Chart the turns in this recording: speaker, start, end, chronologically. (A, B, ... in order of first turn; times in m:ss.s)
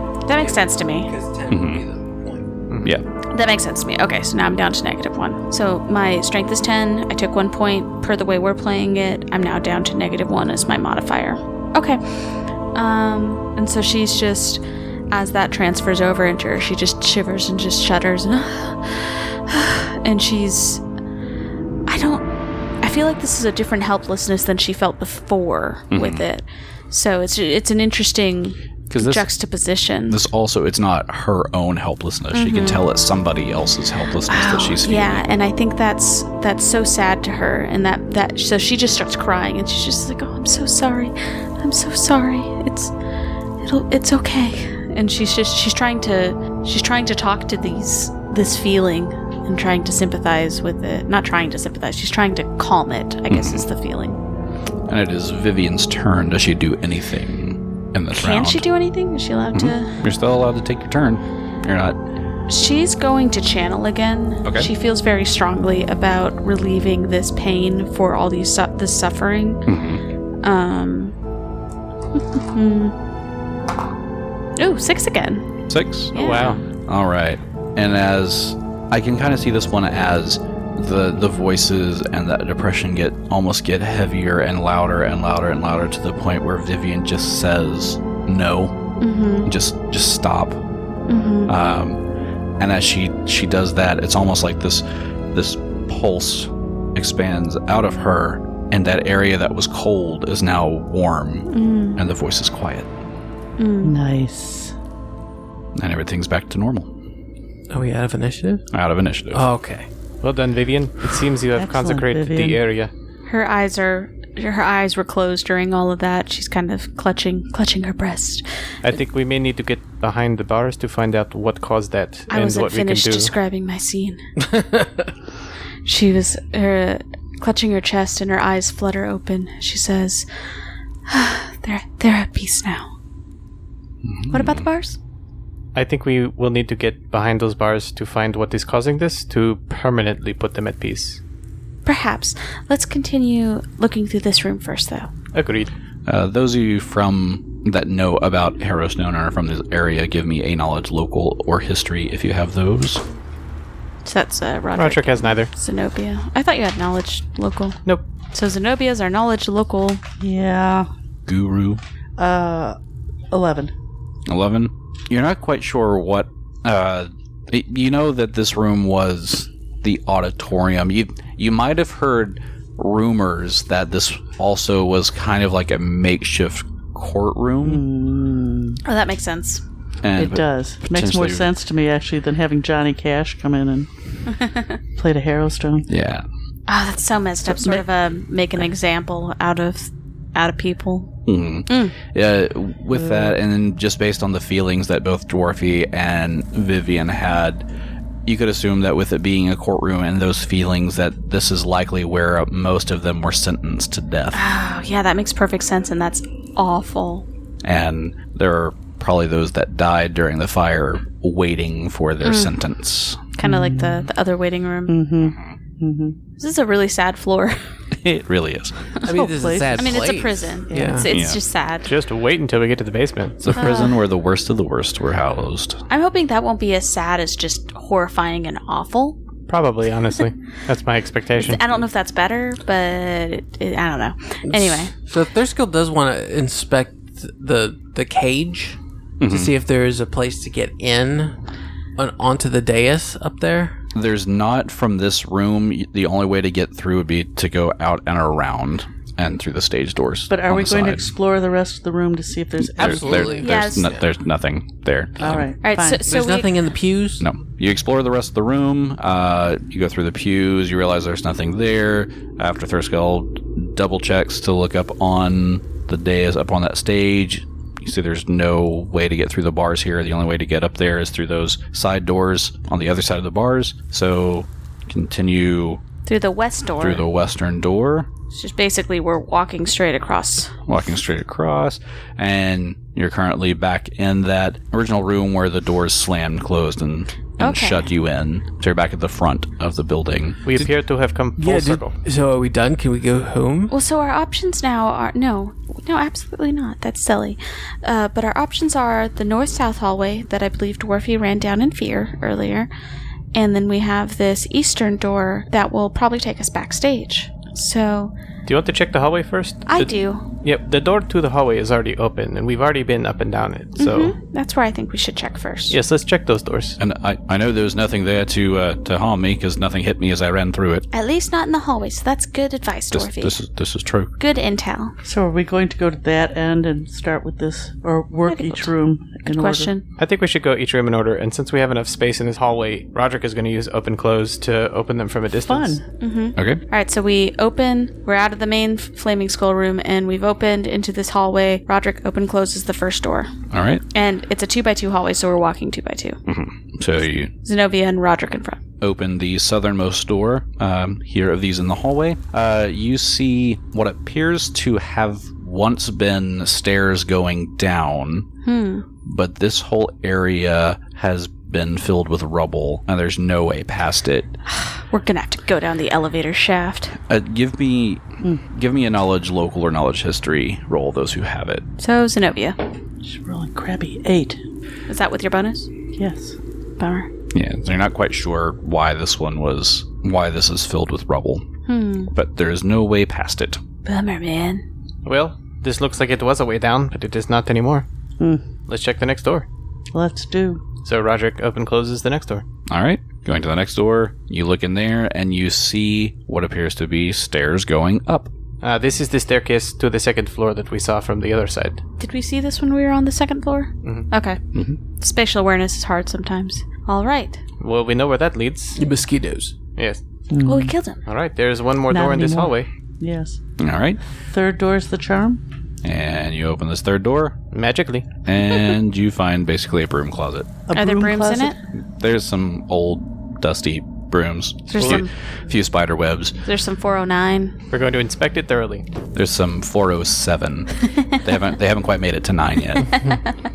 0:00.2-0:01.1 A
0:00.3-0:02.5 B
0:01.5-0:01.8 C
0:02.7-0:02.9 D
0:03.3-0:20.8 A
0:21.9-0:22.3 A
0:22.8-0:30.2 A
0:25.9-0:26.2 C
0:28.9-0:29.3 C
0:30.1-0:35.2 C
0:32.3-0:32.8 A
0:34.3-0:42.9 A
0:43.6-0:54.2 A
0:53.3-0:53.6 C
0:54.9-0:58.6 C
0:58.1-1:00.0 A
0:59.5-1:02.0 C
1:02.5-1:09.6 A
1:09.6-1:10.0 C
1:10.4-1:11.1 A
1:12.2-1:12.9 A
1:14.6-1:15.4 A
1:15.7-1:28.7 C
1:16.1-1:16.6 A
1:16.1-1:16.6 D
1:29.0-1:29.5 A
1:29.4-1:30.6 C
1:31.1-1:31.5 A
1:31.5-1:32.0 C
1:32.6-1:42.9 C
1:41.5-1:42.0 A
1:43.6-1:44.0 A
1:43.8-1:44.7 E
1:45.8-1:46.9 C
1:47.7-1:48.6 B
1:48.7-1:49.4 C
1:49.3-1:49.9 B
1:50.2-1:52.9 D
1:51.5-1:52.6 E
1:53.3-1:58.4 A
1:58.8-2:03.3 D
2:02.3-2:04.2 A
2:04.4-2:05.1 B
2:05.8-2:10.2 A
2:11.1-2:12.9 A
2:14.0-2:14.6 C
2:14.3-2:15.0 A
2:15.7-2:21.2 D
2:21.8-2:25.1 A
2:25.3-2:25.7 D
2:26.0-2:33.0 C
2:34.0-2:37.8 A
2:34.8-2:35.5 D
2:38.3-2:40.0 A
2:40.2-2:40.9 E
2:41.3-2:41.8 C
2:42.2-2:42.8 E
2:43.3-2:43.7 E
2:44.3-2:57.8 C
2:57.6-2:58.8 E
2:58.8-2:59.6 A
3:00.0-3:01.5 C
3:00.1-3:03.9 E
3:04.4-3:04.7 A
3:05.0-3:05.9 E
3:05.9-3:06.2 C
3:06.7-3:11.1 A
3:07.5-3:07.8 E
3:11.2-3:17.6 C
3:11.7-3:11.9 A
3:12.9-3:13.4 E
3:18.2-3:24.4 C
3:24.3-3:27.2 A
3:27.6-3:33.2 C
3:32.2-3:32.5 A
3:33.3-3:35.0 A
3:33.4-3:34.1 E
3:34.9-3:36.2 E
3:35.2-3:35.6 C
3:36.4-3:37.6 A
3:38.0-3:38.9 C
3:39.0-3:41.1 E
3:39.0-3:41.1 B
3:39.8-3:41.9 A
3:41.1-3:41.4 C
3:41.8-3:43.6 D
3:43.4-3:45.8 C
3:43.5-3:44.0 A
3:45.9-3:49.2 A
3:49.5-3:51.6 D
3:51.4-3:54.9 A
3:54.4-4:01.4 B
3:59.2-3:59.5 C
4:02.0-4:03.8 B
4:03.9-4:11.1 C
4:10.3-4:13.4 E
4:12.8-4:15.4 C
4:12.8-4:14.0 B
4:13.4-4:13.9 A
4:15.2-4:16.0 E
4:15.6-4:16.5 A
4:16.0-4:17.2 B
4:17.2-4:35.8 C
4:36.0-4:37.0 A
4:36.8-4:38.1 C
4:38.3-4:40.6 A
4:40.6-4:50.4 C
4:47.4-4:47.9 A
4:50.4-4:52.0 D
4:51.4-4:53.7 B
4:53.7-5:02.7 A
5:03.3-5:08.1 A
5:08.4-5:14.2 D
5:09.7-5:10.2 A
5:13.8-5:15.8 A
5:15.7-5:16.8 D
5:16.8-5:20.9 C
5:20.9-5:23.4 A
5:22.9-5:24.1 C
5:24.2-5:24.9 A
5:25.0-5:29.7 E
5:28.2-5:28.7 A
5:29.2-5:29.8 A
5:30.0-5:35.8 D
5:35.4-5:35.8 E
5:36.0-5:43.3 A
5:36.4-5:36.6 C
5:43.5-5:43.8 C
5:43.9-5:46.2 A
5:46.2-5:47.3 C
5:47.4-5:48.6 A
5:48.8-5:58.3 C
5:58.4-5:58.8 A
5:59.0-6:04.3 C
6:04.5-6:07.0 A
6:07.1-6:11.6 C
6:11.8-6:12.6 A
6:13.0-6:14.4 E
6:14.9-6:15.7 A
6:15.9-6:16.4 E
6:16.8-6:17.1 A
6:17.3-6:21.4 C
6:21.7-6:22.1 A
6:22.1-6:23.6 C
6:23.8-6:24.6 A
6:25.0-6:27.8 D
6:28.2-6:28.5 E
6:28.7-6:29.4 D
6:29.9-6:30.6 E
6:30.8-6:32.4 D
6:32.7-6:38.3 C
6:38.6-6:41.8 D
6:42.0-6:44.4 A
6:44.5-6:44.8 C
6:45.0-6:47.4 A
6:47.6-6:48.8 D
6:48.8-6:49.6 B
6:49.7-6:50.0 D
6:50.3-6:50.7 E
6:50.4-6:51.0 A
6:51.0-6:52.7 D
6:51.9-6:53.4 E
6:53.6-6:54.0 C
6:54.2-6:55.4 E
6:55.8-6:57.4 C
6:57.5-6:58.0 D
6:58.2-7:00.5 C
7:00.7-7:01.6 E
7:00.7-7:01.6 A
7:02.0-7:06.4 C
7:04.7-7:05.1 A
7:04.8-7:05.0 D
7:06.4-7:07.5 A
7:07.7-7:08.8 D
7:09.1-7:12.9 C
7:10.9-7:11.2 A
7:12.8-7:13.3 A